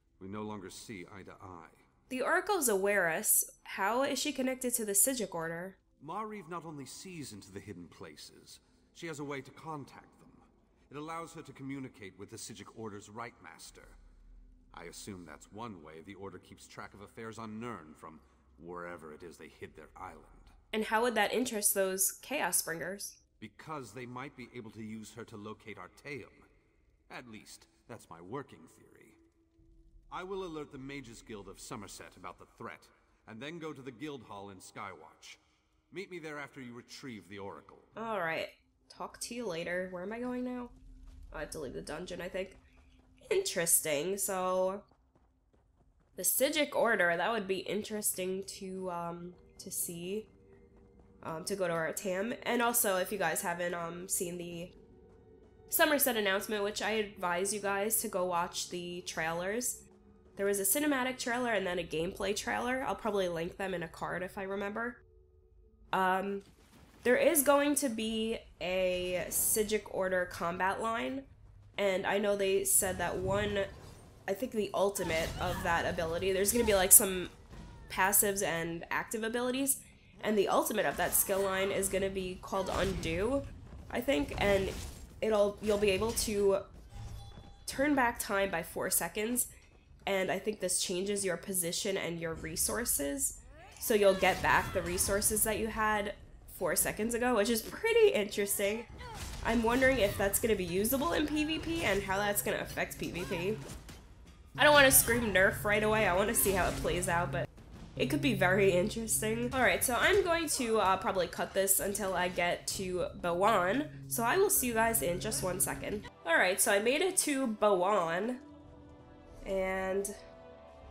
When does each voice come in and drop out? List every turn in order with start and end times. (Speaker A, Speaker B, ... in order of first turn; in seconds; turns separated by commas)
Speaker A: 0.2-1.8, Speaker B: 2.1-5.8, Speaker A: 6.0-14.0, Speaker A: 14.7-20.5, Speaker B: 20.7-23.2, Speaker A: 23.4-26.5, Speaker A: 27.1-29.2, Speaker A: 30.1-37.9, Speaker B: 38.0-40.7, Speaker B: 41.3-42.6, Speaker B: 43.3-44.8, Speaker B: 46.2-50.3, Speaker B: 51.2-54.7, Speaker B: 55.7-59.8, Speaker B: 60.4-65.0, Speaker B: 65.9-66.5, Speaker B: 67.0-73.7, Speaker B: 74.3-77.3, Speaker B: 77.9-86.7, Speaker B: 87.7-89.5, Speaker B: 90.1-98.9, Speaker B: 99.4-103.6, Speaker B: 104.6-118.4, Speaker B: 119.4-120.1